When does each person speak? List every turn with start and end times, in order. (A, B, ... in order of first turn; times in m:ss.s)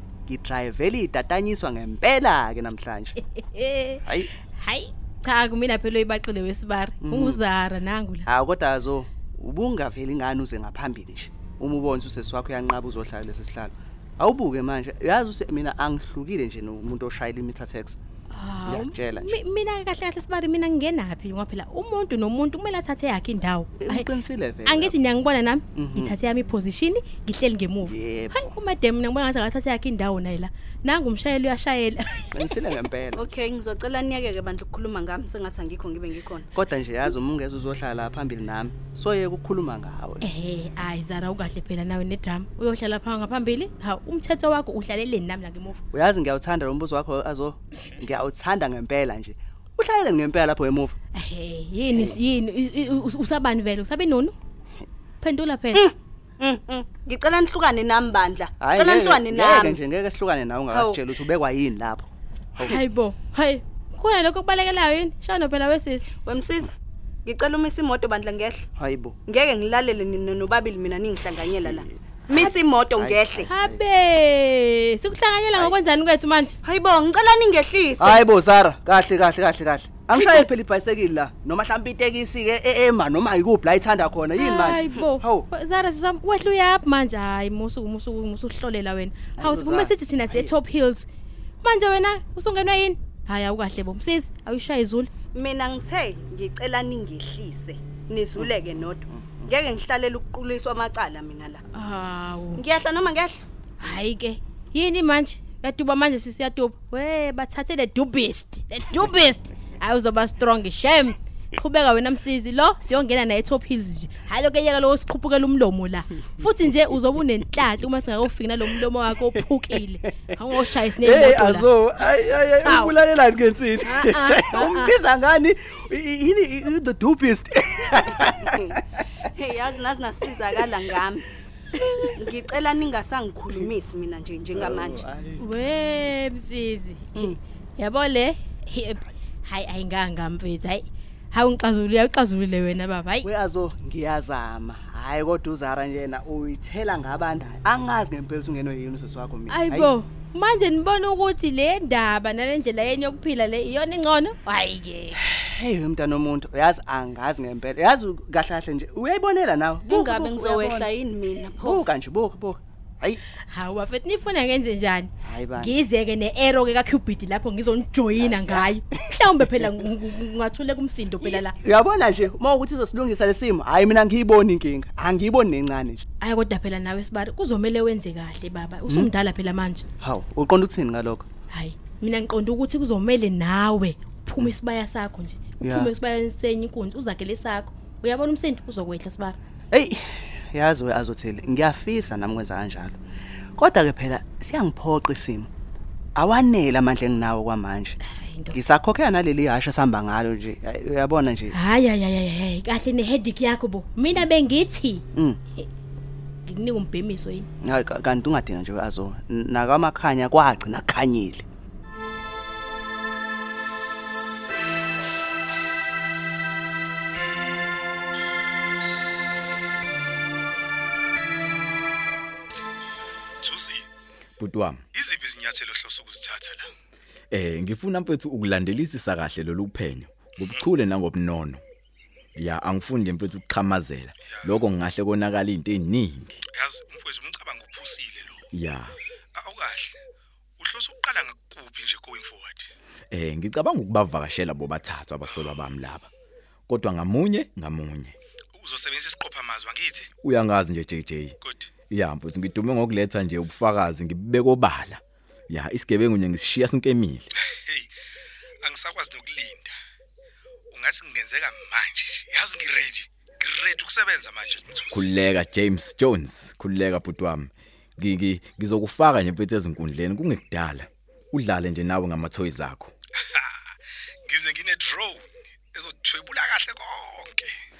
0:00.3-0:03.2 A
0:03.3-0:08.3 B
0:07.0-0:07.4 A
0:08.2-0:18.0 A
0:18.3-0:24.1 B
0:18.6-0:19.3 A
0:23.8-0:24.9 A
0:24.6-0:32.3 B
0:25.7-0:26.1 A
0:27.8-0:28.5 A
0:32.3-0:33.2 A
0:33.1-0:36.5 C
0:36.5-0:40.2 A
0:40.2-0:45.8 B
0:45.9-0:50.9 A
0:51.1-0:54.3 B
0:55.2-0:55.8 B
0:55.7-0:59.8 C
0:58.6-1:02.8 A
1:00.7-1:01.1 C
1:02.6-1:06.1 B
1:06.2-1:08.6 C
1:08.8-1:09.2 A
1:09.3-1:13.5 C
1:11.6-1:13.8 A
1:13.5-1:16.6 B
1:16.6-1:18.2 C
1:18.0-1:25.5 A
1:24.4-1:31.1 B
1:29.4-1:30.5 A
1:31.6-1:35.1 B
1:35.3-1:41.6 C
1:39.1-1:39.5 A
1:41.7-1:42.6 B
1:42.6-1:43.4 C
1:43.8-2:01.7 B
2:01.0-2:08.8 A
2:02.6-2:02.9 B
2:03.8-2:04.9 B
2:08.4-2:08.7 C
2:09.3-2:11.2 C
2:12.2-2:15.1 C
2:14.5-2:15.4 A
2:15.4-2:23.3 B
2:23.2-2:29.9 A
2:29.5-2:35.2 B
2:35.2-2:43.2 A
2:39.9-2:41.8 C
2:43.5-2:51.6 B
2:45.2-2:45.8 A
2:48.1-2:48.7 A
2:51.2-2:56.0 A
2:56.2-2:59.8 B
3:00.0-3:01.2 A
3:01.5-3:09.4 B
3:05.6-3:05.9 A
3:09.7-3:10.0 A
3:10.5-3:13.0 A
3:13.6-3:15.5 A
3:16.2-3:18.0 A
3:18.0-3:18.6 B
3:18.5-3:21.5 A
3:21.5-3:25.0 B
3:26.4-3:27.5 B
3:27.6-3:31.4 A
3:43.4-3:43.9 D
3:44.4-3:44.8 E
3:44.9-3:46.7 D
3:47.3-3:51.6 E
3:52.4-3:56.4 E
3:54.3-3:54.6 D
3:56.5-3:58.4 D
3:58.5-3:59.0 E
3:59.3-4:00.0 D
4:00.6-4:02.7 D
4:03.1-4:06.1 E
4:06.7-4:08.1 E
4:08.5-4:10.1 D
4:10.2-4:11.4 E
4:11.4-4:11.7 D
4:11.9-4:17.3 E
4:18.6-4:19.7 D
4:20.7-4:25.1 D
4:24.9-4:32.9 E
4:33.2-4:33.5 D
4:34.2-4:37.5 D